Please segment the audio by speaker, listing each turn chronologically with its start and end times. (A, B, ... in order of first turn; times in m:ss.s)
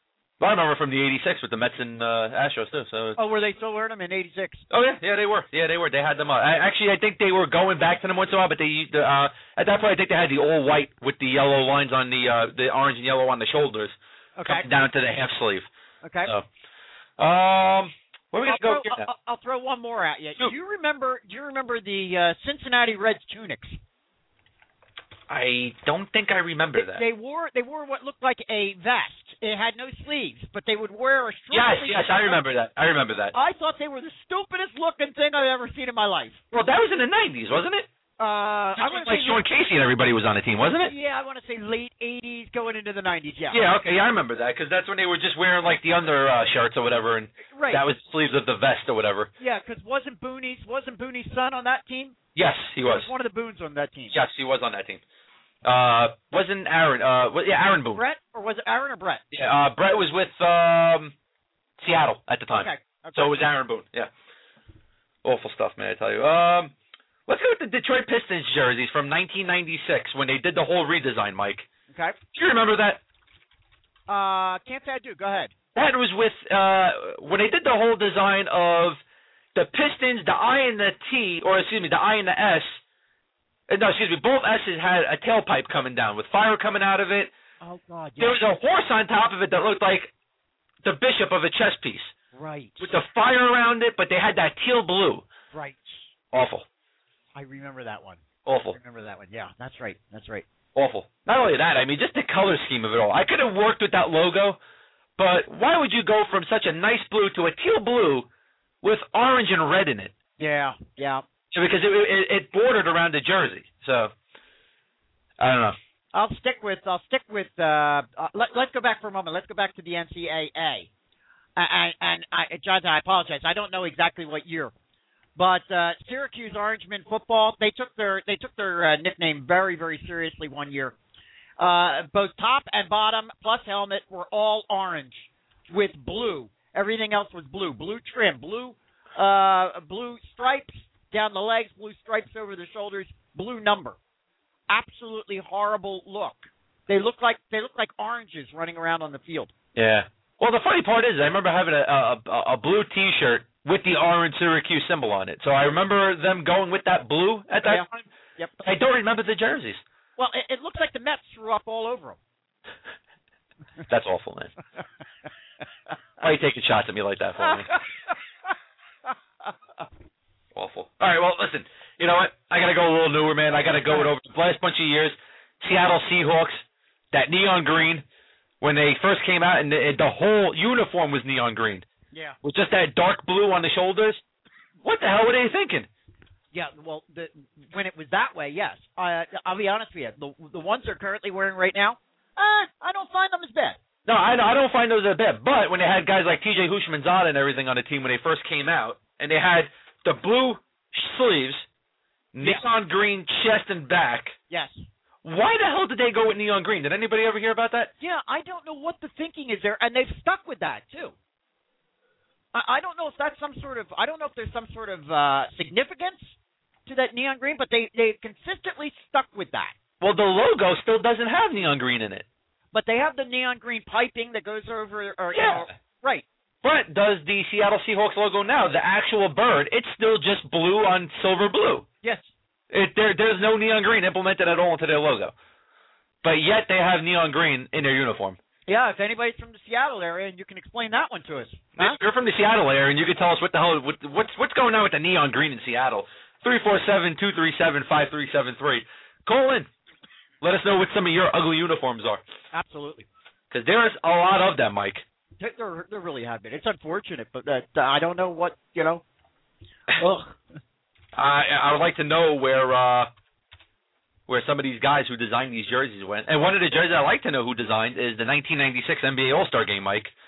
0:00.4-0:03.2 A
0:03.2-0:04.6 B
0:04.7-0:15.7 A
0:14.4-0:14.7 B
0:16.0-0:16.3 B
0:17.2-0:19.1 A
0:18.4-0:23.8 B
0:25.3-0:27.0 A
0:26.8-0:32.4 B
0:31.5-0:33.3 A
0:33.3-0:36.4 B
0:36.5-0:37.9 A
0:38.2-0:39.4 B
0:38.8-0:40.9 A
0:40.8-0:43.6 B
0:43.5-0:49.3 A
0:47.5-0:47.8 B
0:49.4-0:52.2 B
0:52.3-0:53.1 A
0:52.8-0:54.2 B
0:54.1-0:55.0 A
0:55.6-0:58.0 A
0:57.9-0:59.2 B
0:59.3-1:01.1 A
1:01.8-1:04.1 A
1:02.5-1:03.4 B
1:05.2-1:06.7 A
1:07.3-1:11.6 A
1:11.9-1:12.2 B
1:12.3-1:13.0 A
1:14.1-1:15.5 B
1:15.7-1:19.0 A
1:19.5-1:22.8 A
1:23.7-1:27.3 A
1:27.6-1:28.4 B
1:28.2-1:30.1 A
1:30.8-1:32.1 A
1:32.3-1:32.9 B
1:32.8-1:35.2 A
1:35.5-1:36.1 B
1:36.3-1:36.6 A
1:37.3-1:40.4 B
1:38.4-1:38.8 A
1:40.7-1:44.6 A
1:45.2-1:48.3 A
1:48.8-1:50.1 A
1:50.4-1:51.2 B
1:51.5-1:54.1 A
1:55.4-1:55.8 A
1:56.1-2:00.9 B
2:01.6-2:04.7 B
2:05.4-2:10.9 B
2:11.6-2:24.0 B
2:24.7-2:29.5 B
2:29.7-2:38.1 A
2:38.6-2:39.8 A
2:40.2-2:42.2 B
2:43.9-2:44.5 A
2:46.2-2:47.7 A
2:47.4-2:48.1 B
2:50.5-2:58.0 A
2:58.6-3:01.8 A
3:02.1-3:02.4 B
3:02.4-3:04.2 A
3:04.8-3:05.9 A
3:06.5-3:13.8 B
3:14.0-3:21.7 A
3:22.3-3:24.4 A
3:24.5-3:24.8 B
3:25.2-3:27.9 A
3:28.0-3:31.1 B
3:32.5-3:36.4 B
3:36.9-3:39.7 B
3:40.0-3:42.2 A
3:42.7-3:46.2 B
3:45.3-3:45.7 A
3:46.6-3:51.8 A
3:52.0-3:52.3 B
3:52.7-3:55.3 A
3:56.2-3:58.4 A
3:58.7-4:02.0 B
4:01.8-4:09.7 A
4:10.4-4:12.2 A
4:12.5-4:13.1 B
4:13.5-4:15.0 A
4:15.4-4:19.0 B
4:19.9-4:20.4 B
4:21.2-4:23.1 A
4:24.3-4:30.1 A